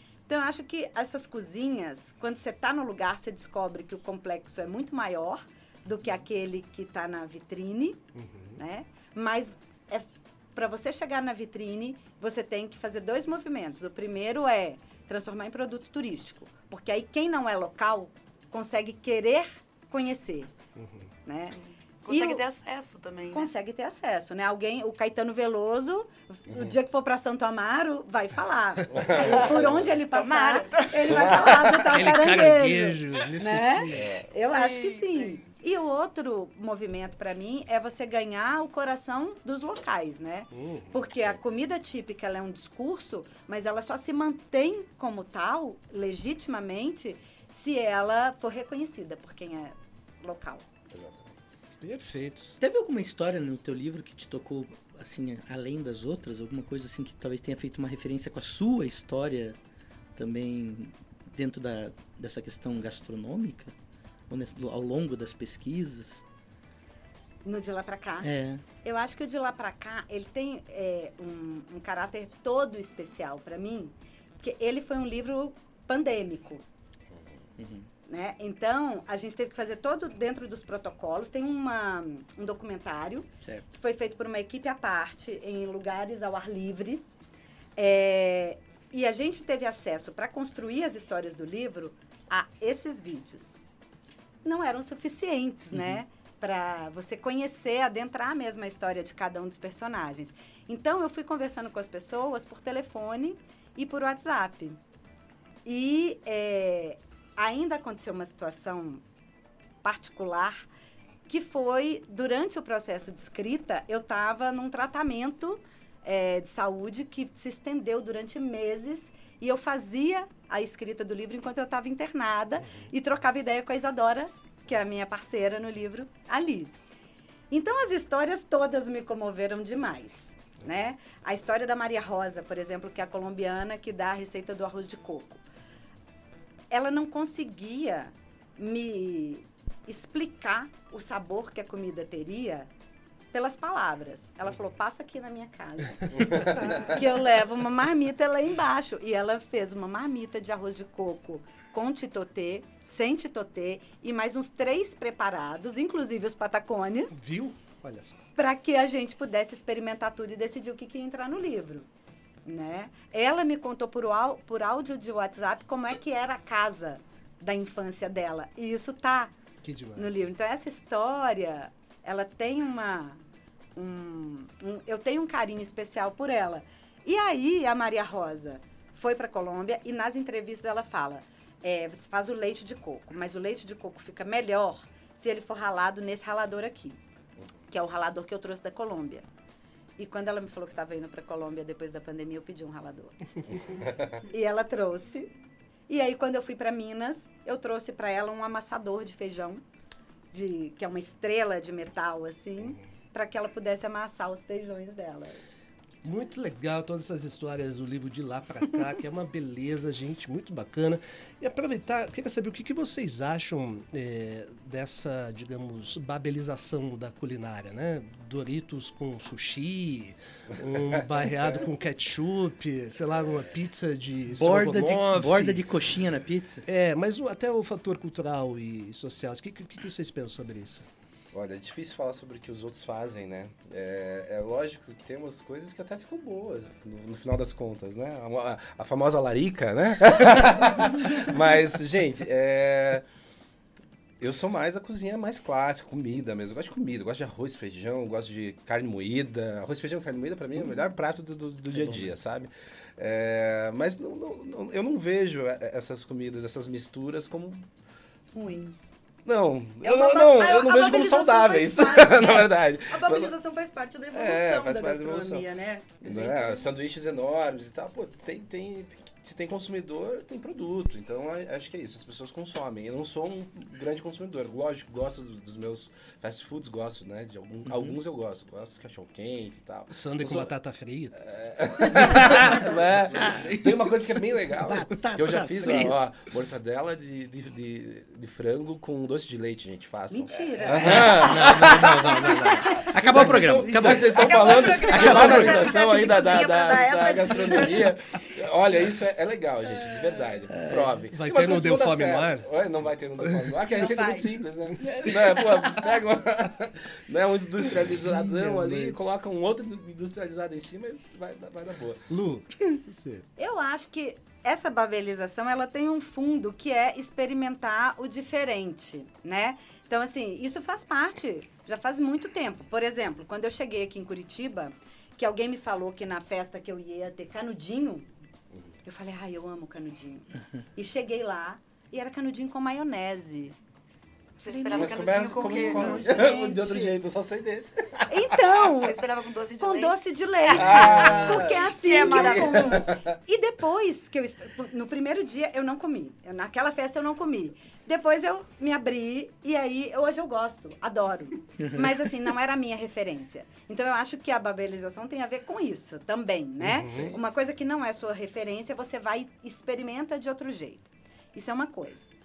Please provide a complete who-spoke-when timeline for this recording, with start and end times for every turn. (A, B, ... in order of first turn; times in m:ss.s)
0:00.3-0:08.0 A
0:08.2-0:08.6 B
0:08.6-0:20.5 A
0:20.8-0:21.1 B
0:21.2-0:21.6 A
0:21.5-0:23.5 C
0:22.1-0:22.4 A
0:23.3-0:50.6 A
0:28.9-0:29.9 D
0:30.1-0:31.5 C
0:31.1-0:31.9 D
0:31.9-0:34.2 B
0:34.4-0:35.4 C
0:40.5-0:41.0 B
0:50.9-0:51.3 D
0:51.8-0:52.6 B
0:52.6-0:59.6 E
1:00.2-1:03.7 E
1:04.3-1:06.2 E
1:07.4-1:08.3 A
1:08.2-1:08.6 E
1:08.8-1:16.6 A
1:17.6-1:17.9 E
1:18.1-1:27.0 A
1:27.8-1:33.6 A
1:34.4-1:44.8 A
1:35.7-1:36.0 E
1:45.6-1:49.0 A
1:49.8-1:50.7 A
1:51.3-2:06.7 A
2:07.5-2:15.4 A
2:16.7-2:22.7 A
2:23.3-2:37.2 A
2:26.2-2:26.9 D
2:37.1-2:38.2 B
2:38.4-2:41.9 A
2:42.5-2:49.3 A
2:49.6-2:50.3 B
2:50.0-2:53.2 A
2:53.8-3:07.0 A
3:07.7-3:09.3 A
3:10.0-3:15.3 A
3:13.9-3:14.2 D
3:15.9-3:19.6 A
3:20.3-3:25.4 A
3:26.0-3:45.7 B
3:44.4-3:46.6 E
3:46.6-3:50.9 B
3:51.3-4:03.0 D
4:04.2-4:17.7 D
4:11.7-4:12.1 E
4:18.3-4:18.9 C
4:19.2-4:23.4 D
4:19.8-4:26.7 C
4:24.1-4:25.5 D
4:26.0-4:40.5 D
4:37.7-4:38.0 E
4:39.9-4:41.2 B
4:41.2-5:12.0 D
4:41.8-4:44.2 B
4:43.2-4:43.4 E
4:44.6-4:46.0 E
4:50.1-4:51.1 A
4:50.8-4:52.0 E
4:50.8-4:55.4 B
4:52.7-4:54.3 E
4:54.1-4:57.9 C
4:54.9-4:55.7 E
5:00.5-5:00.9 E
5:01.1-5:02.5 B
5:03.2-5:03.6 B
5:03.7-5:06.0 C
5:07.8-5:09.0 B
5:12.1-5:13.3 B
5:13.4-5:28.1 A
5:28.8-5:33.6 A
5:34.4-5:36.4 C
5:34.5-5:37.0 A
5:34.7-5:38.4 D
5:38.1-5:39.0 A
5:38.6-5:42.9 C
5:39.6-6:02.0 A
5:40.6-5:43.2 D
5:56.6-5:57.2 B
5:56.9-5:57.2 D